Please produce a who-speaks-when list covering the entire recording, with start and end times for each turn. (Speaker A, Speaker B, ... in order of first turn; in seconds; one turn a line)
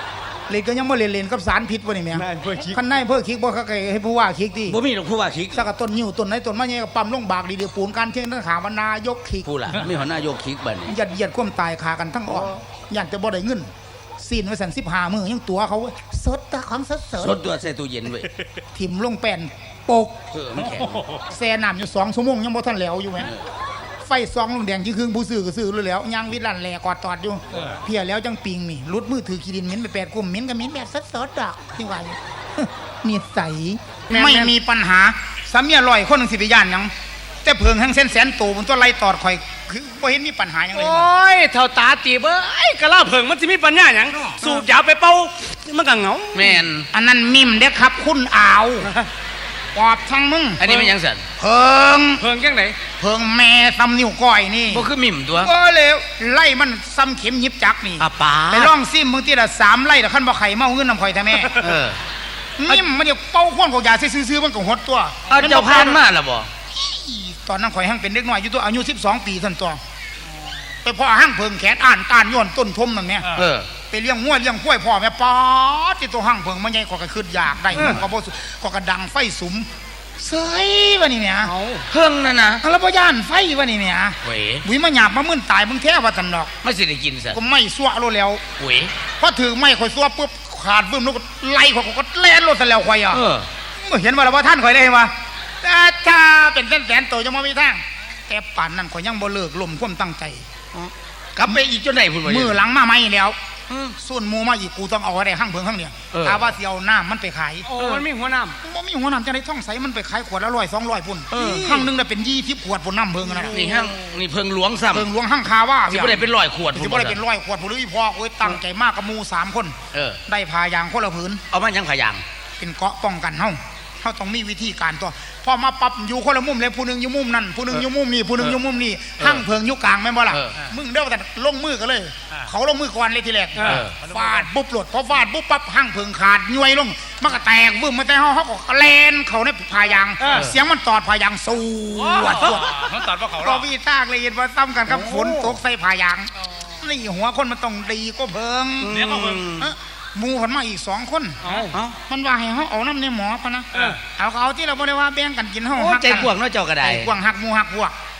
Speaker A: 0.5-4.8
Speaker B: 2.1-2.8
Speaker C: 4.7-5.7
Speaker A: 5.5-9.5
Speaker C: 9.4-10.9
Speaker A: 10.9-17.4
Speaker C: 12.3-12.5
Speaker C: 17.2-18.3
Speaker A: 18.7-20.1
Speaker C: 20.3-21.0
Speaker D: 20.6-21.2
Speaker A: 21.3-23.3
Speaker A: 24.0-36.9
Speaker B: 34.1-34.5
Speaker A: 37.4-41.1
Speaker B: 40.7-46.7
Speaker C: 46.3-46.9
Speaker A: 46.9-48.9
Speaker A: 49.7-50.6
Speaker C: 50.6-51.2
Speaker B: 50.6-50.9
Speaker A: 51.4-52.2
Speaker B: 52.2-52.8
Speaker A: 53.0-54.9
Speaker C: 54.7-55.5
Speaker A: 55.4-61.5
Speaker C: 58.0-58.7
Speaker C: 61.5-62.0
Speaker A: 62.6-66.0
Speaker C: 65.3-66.5
Speaker A: 66.7-69.8
Speaker A: 70.8-73.3
Speaker C: 73.3-73.7
Speaker A: 73.9-81.5
Speaker C: 77.7-78.1
Speaker B: 81.4-81.9
Speaker C: 81.9-82.6
Speaker A: 82.6-86.5
Speaker C: 84.2-84.7
Speaker C: 86.6-87.4
Speaker A: 87.3-88.4
Speaker C: 88.6-88.9
Speaker A: 89.2-93.2
Speaker C: 93.1-93.5
Speaker A: 93.8-100.4
Speaker C: 100.7-102.6
Speaker A: 102.2-103.3
Speaker C: 103.7-104.0
Speaker A: 104.0-107.7
Speaker C: 106.1-106.5
Speaker B: 107.7-108.6
Speaker C: 107.7-108.1
Speaker A: 108.6-113.6
Speaker C: 111.3-111.9
Speaker B: 113.4-114.0
Speaker C: 113.5-115.1
Speaker A: 114.9-119.8
Speaker C: 115.9-117.2
Speaker C: 119.9-120.2
Speaker A: 120.3-121.4
Speaker C: 121.5-122.2
Speaker A: 122.6-142.8
Speaker C: 129.2-129.4
Speaker C: 130.3-130.6
Speaker C: 133.6-133.9
Speaker B: 140.2-140.4
Speaker C: 140.3-140.6
Speaker B: 142.1-142.6
Speaker D: 142.3-143.6
Speaker A: 143.3-149.0
Speaker C: 144.9-145.6
Speaker C: 148.8-149.7
Speaker D: 148.9-149.5
Speaker A: 149.6-157.9
Speaker B: 151.4-151.7
Speaker C: 151.7-152.0
Speaker C: 155.8-157.1